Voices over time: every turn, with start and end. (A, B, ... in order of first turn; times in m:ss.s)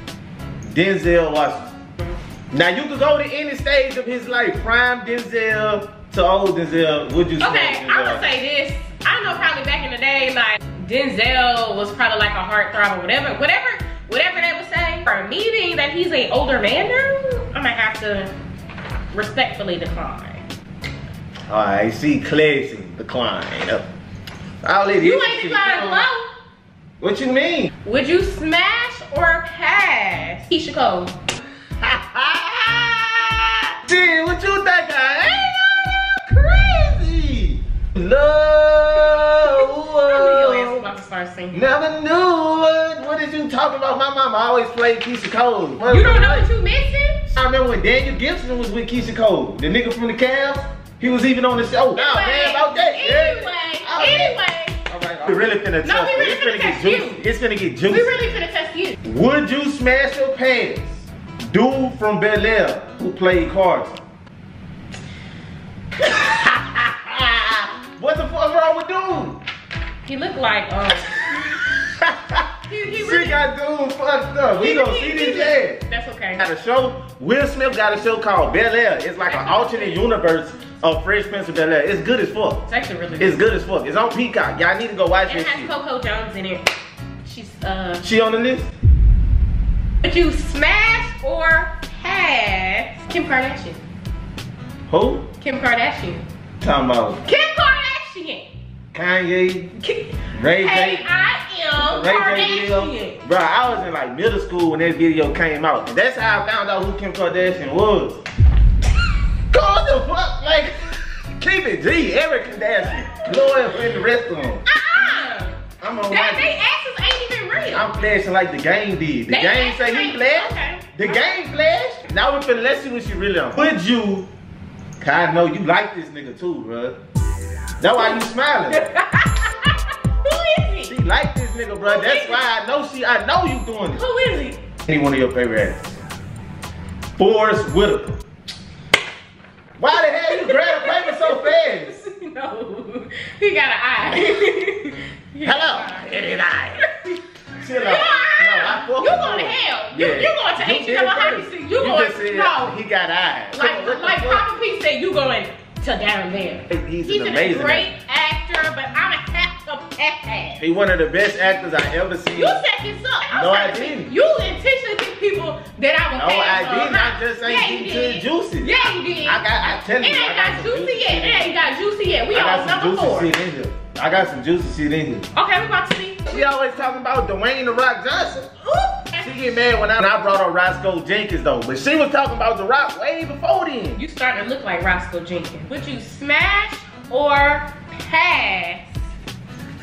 0:00.7-0:01.7 A
0:02.5-0:08.3 A
0:07.4-0:18.3 B
0:19.1-0:20.4 B
0:21.5-0:23.9 A
0:24.6-0:26.0 A
0:25.0-0:26.3 B
0:27.0-0:27.7 A
0:27.8-0:31.1 B
0:31.8-0:40.8 A
0:39.4-0:41.6 B
0:41.5-0:46.4 A
0:45.8-0:47.2 B
0:47.3-0:58.1 A
0:51.9-0:54.8 B
0:55.8-0:57.2 B
0:57.9-0:59.0 B
0:59.0-1:04.0 A
1:06.0-1:09.4 A
1:10.0-1:11.2 B
1:11.1-1:15.8 A
1:12.6-1:13.4 B
1:14.5-1:16.4 B
1:16.4-1:22.6 A
1:19.2-1:20.0 B
1:22.7-1:23.4 B
1:23.2-1:25.7 A
1:25.3-1:26.7 B
1:27.2-1:28.0 B
1:28.0-1:28.7 A
1:30.0-1:33.8 B
1:34.9-1:35.3 A
1:35.4-1:36.2 B
1:36.6-1:37.2 A
1:37.2-1:38.5 B
1:38.9-1:39.7 A
1:39.8-1:43.2 B
1:40.4-1:41.0 A
1:41.8-1:48.2 A
1:49.5-1:50.8 A
1:51.4-1:54.6 A
1:52.7-1:53.8 B
1:54.6-1:57.9 B
1:55.8-1:56.5 A
1:57.7-2:04.3 A
1:59.3-2:01.1 B
2:05.0-2:07.0 A
2:07.8-2:08.9 A
2:08.7-2:10.9 B
2:10.8-2:14.0 A
2:11.8-2:12.4 B
2:13.9-2:14.6 B
2:14.9-2:15.9 A
2:17.2-2:18.2 A
2:19.8-2:21.9 A
2:20.0-2:27.2 B
2:25.4-2:26.8 A
2:27.6-2:34.4 A
2:27.8-2:32.7 B
2:33.5-2:40.6 B
2:36.7-2:37.9 A
2:40.6-2:42.6 A
2:42.3-2:53.3 B
2:43.3-2:44.1 A
2:46.1-2:51.5 A
2:52.3-2:55.3 A
2:55.3-2:56.4 B
2:56.3-2:58.5 A
2:58.8-2:59.2 B
2:59.1-3:04.0 A
3:04.0-3:08.9 B